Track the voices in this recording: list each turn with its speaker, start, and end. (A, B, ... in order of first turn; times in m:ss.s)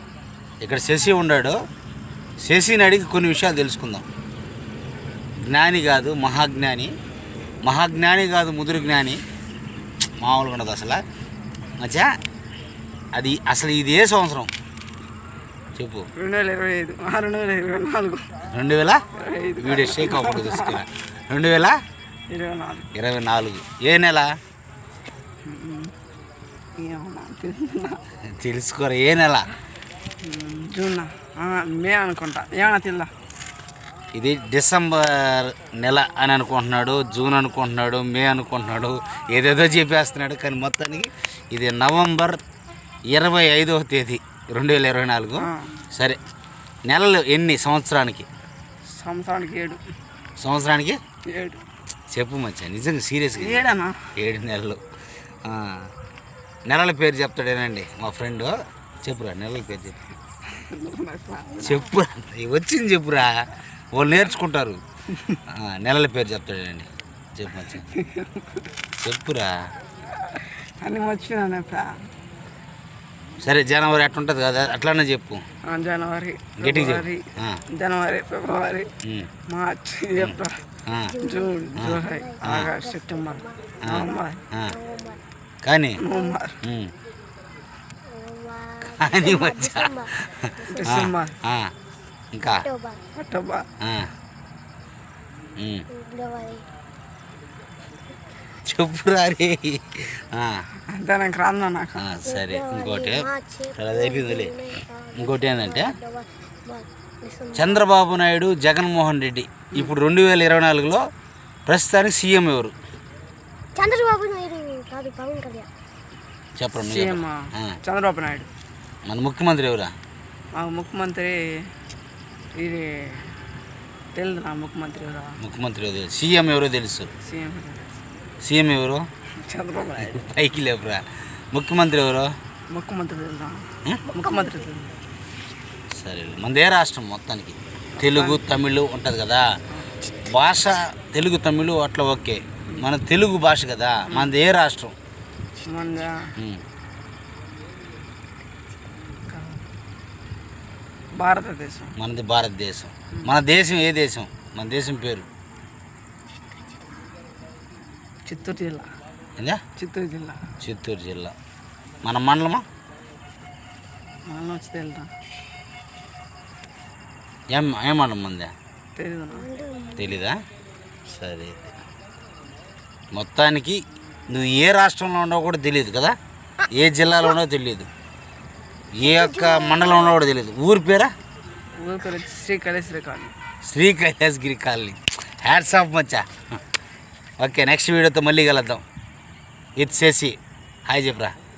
0:00.6-0:01.6 A
0:02.4-0:04.0 A
0:05.4-0:06.9 A
0:07.6-0:09.2 A
0:10.2-0:11.0 A
0:11.8-0:12.1 A
0:13.1-0:14.5 A
0:15.8-0:16.1 A
0:16.2-0:18.3 B
0:18.5-0:19.0 A
0:19.1-0:20.8 B
0:19.6-0:21.8 A
0:22.3-0:22.9 B
0:22.9-0:24.3 A
0:25.4-0:25.9 B
0:26.8-0:28.0 B
0:28.3-0:29.5 A
0:30.2-0:33.1 B
0:34.1-0:42.4 A
0:43.1-0:46.2 A
0:45.4-0:45.7 B
0:46.8-0:48.3 A
0:48.9-0:49.8 B
0:50.4-0:51.0 A
0:51.3-0:51.6 B
0:52.1-0:53.6 A
0:53.4-0:54.1 B
0:54.2-0:54.8 A
0:55.4-0:55.9 A
0:56.7-1:00.0 A
1:00.5-1:01.9 B
1:01.6-1:04.8 A
1:05.5-1:07.9 A
1:07.9-1:08.7 B
1:09.0-1:09.5 A
1:10.1-1:12.1 B
1:13.4-1:15.4 A
1:15.7-1:18.9 B
1:16.6-1:17.6 A
1:19.0-1:19.3 A
1:19.5-1:20.6 B
1:20.2-1:21.2 A
1:21.0-1:25.2 C
1:21.2-1:24.4 B
1:21.7-1:22.7 A
1:23.8-1:24.7 A
1:25.6-1:26.0 A
1:26.0-1:26.6 B
1:26.1-1:26.4 C
1:26.6-1:26.9 A
1:28.1-1:30.9 C
1:29.0-1:31.7 A
1:30.7-1:31.4 B
1:32.3-1:32.7 A
1:32.4-1:33.0 C
1:33.1-1:33.6 B
1:33.8-1:34.1 A
1:35.6-1:35.8 A
1:35.9-1:36.6 C
1:38.6-1:40.6 A
1:40.9-1:42.0 B
1:42.0-1:44.6 A
1:42.2-1:47.8 C
1:45.2-1:45.9 A
1:47.5-1:51.0 A
1:51.7-1:52.7 A
1:53.8-1:55.7 C
1:56.6-1:57.8 A
1:56.7-1:58.5 B
1:59.1-1:59.9 A
2:00.5-2:01.7 B
2:02.5-2:03.4 B
2:04.1-2:05.4 B
2:05.4-2:07.1 A
2:07.2-2:07.9 B
2:08.4-2:09.0 A
2:09.4-2:10.3 B
2:10.1-2:12.3 A
2:12.7-2:14.9 B
2:14.1-2:14.7 C
2:16.0-2:19.4 A
2:18.0-2:18.4 B
2:20.2-2:24.9 A
2:24.1-2:24.3 B
2:25.6-2:26.3 B
2:26.4-2:26.6 A
2:29.3-2:29.6 B
2:31.2-2:32.0 B
2:32.0-2:35.2 A
2:38.2-2:38.9 B
2:39.8-2:40.5 B
2:40.6-2:41.3 A
2:42.0-2:42.6 A
2:44.2-2:45.1 B
2:47.5-2:48.5 A
2:49.0-2:49.5 B
2:49.3-2:50.2 C
2:50.0-2:50.4 A
2:51.1-2:51.7 A
2:53.1-2:56.2 A
2:56.7-2:57.9 A
2:59.0-3:01.1 A
2:59.0-3:00.1 C
3:01.8-3:03.3 B
3:03.6-3:06.3 A
3:07.4-3:08.8 A
3:09.8-3:11.3 A